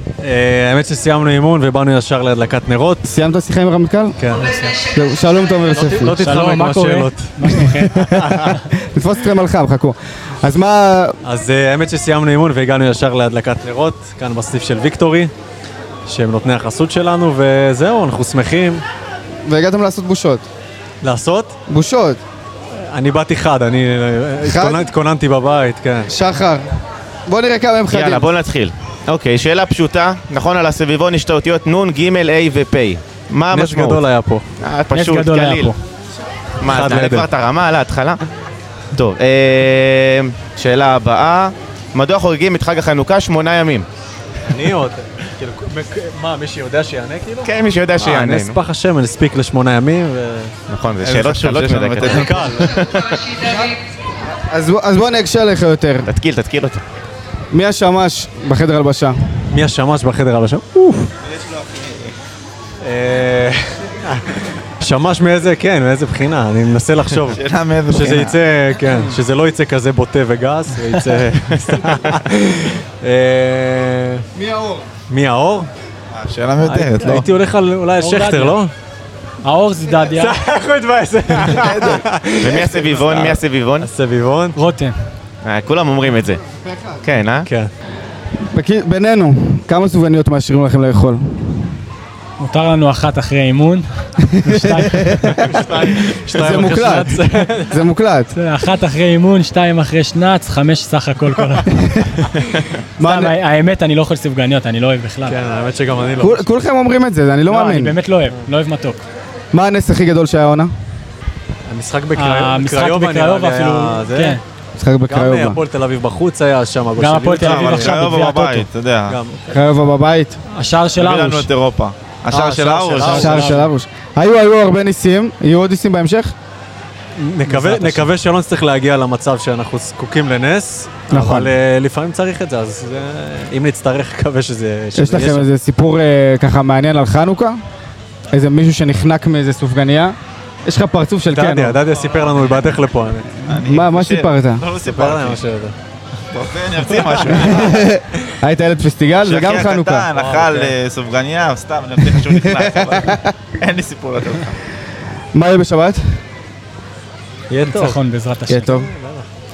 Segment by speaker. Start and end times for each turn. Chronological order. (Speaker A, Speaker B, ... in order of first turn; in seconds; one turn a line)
Speaker A: 0.2-3.1
Speaker B: 3.1-4.2
Speaker A: 4.2-4.8
Speaker B: 4.9-6.2
Speaker A: 5.7-8.5
Speaker C: 6.1-8.6
Speaker B: 8.0-11.2
Speaker A: 11.2-15.3
Speaker A: 16.1-18.8
Speaker B: 19.4-20.4
Speaker A: 21.0-21.5
Speaker B: 21.7-22.2
Speaker A: 22.8-26.1
Speaker B: 24.4-24.9
Speaker B: 26.1-26.7
Speaker B: 27.3-28.3
Speaker D: 27.9-34.0
Speaker A: 33.5-34.5
Speaker D: 34.6-35.7
Speaker C: 34.9-35.8
Speaker D: 36.6-38.2
Speaker A: 36.6-37.3
Speaker D: 38.9-43.9
Speaker A: 44.5-50.5
Speaker D: 47.4-48.6
Speaker D: 50.7-53.3
Speaker E: 51.0-52.5
Speaker A: 52.0-52.7
Speaker B: 53.4-53.7
Speaker B: 54.5-56.1
Speaker D: 56.1-56.8
Speaker B: 57.5-59.2
Speaker A: 59.5-61.1
Speaker E: 61.3-62.1
Speaker A: 62.8-74.2
Speaker E: 67.3-68.4
Speaker B: 74.4-74.9
Speaker A: 75.1-75.7
Speaker E: 76.1-77.3
Speaker A: 76.6-78.7
Speaker C: 78.0-78.6
Speaker C: 79.4-80.4
Speaker A: 80.1-82.8
Speaker E: 81.5-83.4
Speaker D: 82.4-83.9
Speaker A: 83.8-84.6
Speaker C: 84.6-85.0
Speaker D: 85.4-86.4
Speaker D: 87.0-87.5
Speaker A: 87.5-87.7
Speaker B: 88.5-91.7
Speaker C: 92.4-93.8
Speaker B: 94.5-95.4
Speaker C: 94.5-95.5
Speaker A: 95.4-97.8
Speaker B: 96.3-98.3
Speaker C: 98.3-101.7
Speaker B: 103.0-103.4
Speaker C: 103.0-105.4
Speaker A: 105.3-106.4
Speaker B: 106.2-108.0
Speaker C: 107.5-109.0
Speaker B: 109.5-110.7
Speaker A: 111.7-114.4
Speaker C: 112.2-114.4
Speaker B: 114.8-115.6
Speaker A: 115.1-118.2
Speaker C: 117.0-118.7
Speaker E: 117.4-119.2
Speaker A: 119.1-119.5
Speaker B: 119.5-120.4
Speaker C: 120.5-121.5
Speaker E: 121.0-123.5
Speaker A: 122.3-123.7
Speaker B: 123.1-126.3
Speaker A: 127.2-135.5
Speaker C: 127.5-128.1
Speaker B: 131.1-131.5
Speaker B: 134.9-137.6
Speaker B: 138.3-141.8
Speaker A: 141.3-143.3
Speaker E: 142.0-142.3
Speaker E: 143.5-145.4
Speaker B: 143.5-144.6
Speaker A: 144.8-145.8
Speaker E: 146.3-147.9
Speaker A: 146.9-147.7
Speaker B: 147.3-150.1
Speaker E: 149.2-154.6
Speaker A: 150.1-150.7
Speaker B: 152.2-153.3
Speaker B: 155.3-156.2
Speaker A: 157.5-158.0
Speaker C: 157.7-158.7
Speaker B: 158.5-158.9
Speaker A: 158.7-159.3